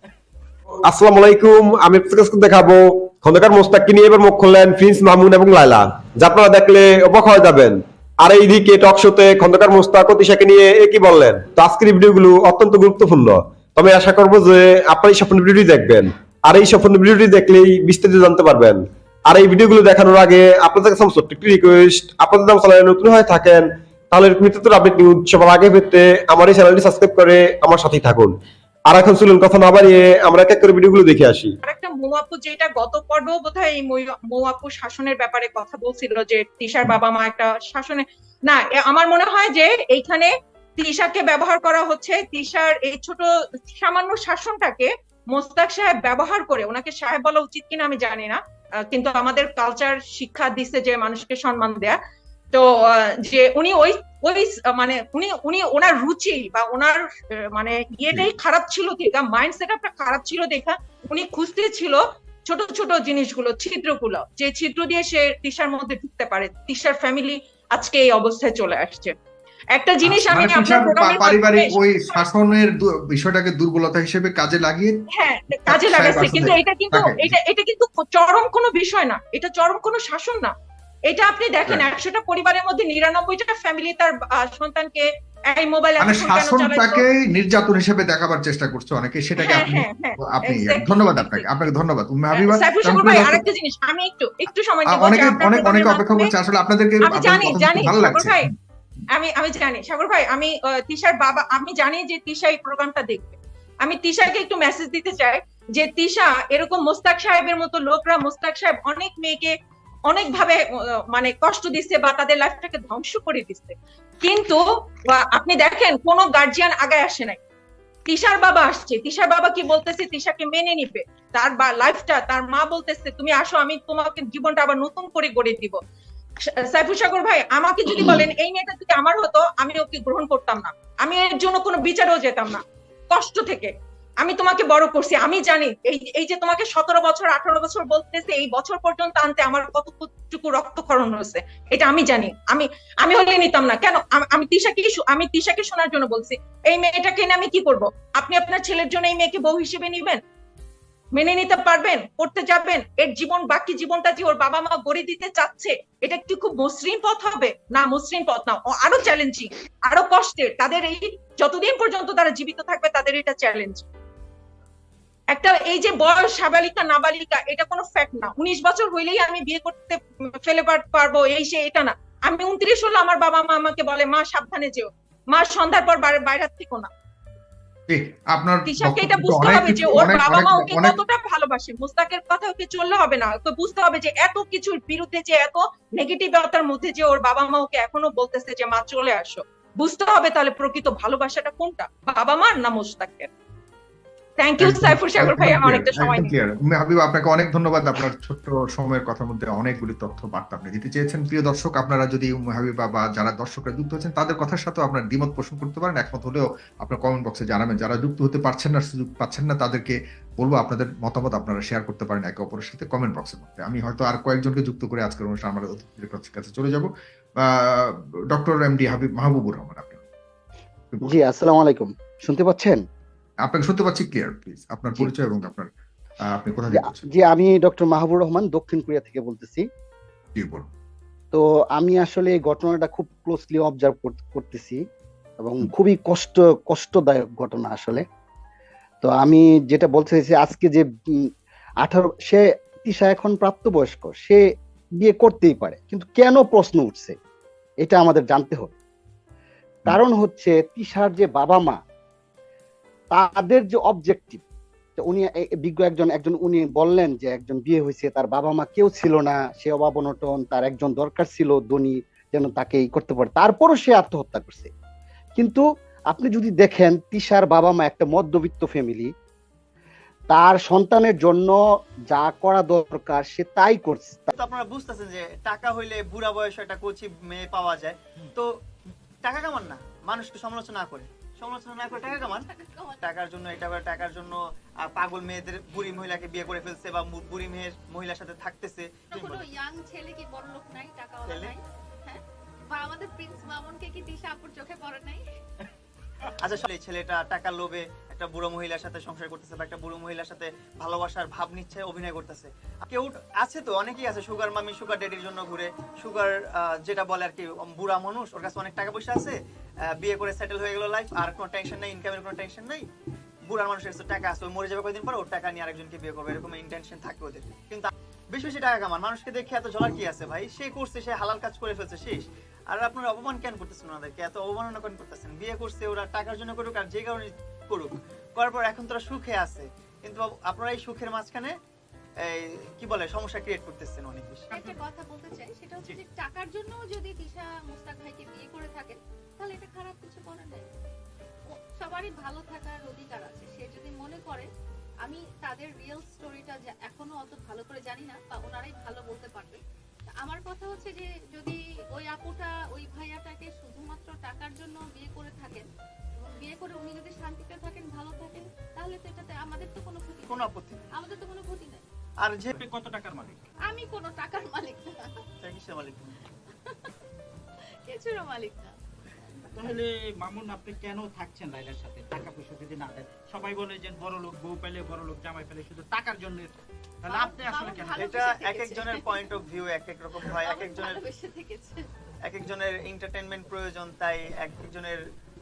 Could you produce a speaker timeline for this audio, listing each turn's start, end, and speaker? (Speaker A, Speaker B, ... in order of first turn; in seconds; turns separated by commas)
Speaker A: 0.8-28.4, Speaker A: 28.9-31.5, Speaker B: 31.6-52.0, Speaker B: 52.5-69.1, Speaker B: 69.7-72.3, Speaker C: 70.0-75.0, Speaker B: 75.2-80.5, Speaker C: 75.7-77.3, Speaker B: 81.1-87.0, Speaker C: 86.0-93.4, Speaker B: 89.4-91.5, Speaker B: 92.3-96.3, Speaker C: 94.9-98.5, Speaker B: 97.0-98.5, Speaker B: 99.1-109.5, Speaker B: 110.1-110.6, Speaker B: 111.1-117.4, Speaker B: 118.1-125.8, Speaker B: 126.7-150.2, Speaker B: 151.2-163.9, Speaker B: 165.3-176.9, Speaker C: 177.9-181.0, Speaker B: 178.7-193.3, Speaker B: 194.4-196.3, Speaker C: 194.6-216.9, Speaker C: 217.4-220.0, Speaker C: 220.9-221.2, Speaker D: 221.0-222.8, Speaker C: 223.4-225.7, Speaker C: 226.2-227.1, Speaker D: 226.7-229.7, Speaker C: 230.4-230.7, Speaker D: 231.3-234.8, Speaker D: 235.4-238.0, Speaker D: 239.0-241.3, Speaker D: 241.8-244.4, Speaker D: 245.0-247.2, Speaker D: 247.8-248.7, Speaker D: 249.9-251.8, Speaker D: 253.1-254.4, Speaker D: 255.0-264.7, Speaker D: 265.4-269.1, Speaker D: 270.3-271.6, Speaker D: 272.1-274.3, Speaker E: 274.3-278.5, Speaker E: 279.2-282.5, Speaker F: 281.8-283.1, Speaker E: 283.0-284.4, Speaker E: 284.9-289.5, Speaker F: 289.1-295.3, Speaker E: 291.2-291.5, Speaker E: 296.4-309.4, Speaker E: 309.9-312.9, Speaker E: 313.5-331.5, Speaker E: 332.8-334.5, Speaker F: 334.5-340.7, Speaker F: 341.5-344.5, Speaker F: 345.0-361.9, Speaker E: 360.3-360.9, Speaker E: 362.2-362.6, Speaker G: 362.5-363.4, Speaker F: 363.7-365.1, Speaker E: 365.4-366.2, Speaker F: 366.5-366.9, Speaker F: 367.9-369.7, Speaker G: 369.6-378.1, Speaker F: 377.1-379.4, Speaker E: 378.0-381.0, Speaker F: 380.2-381.8, Speaker E: 382.2-385.0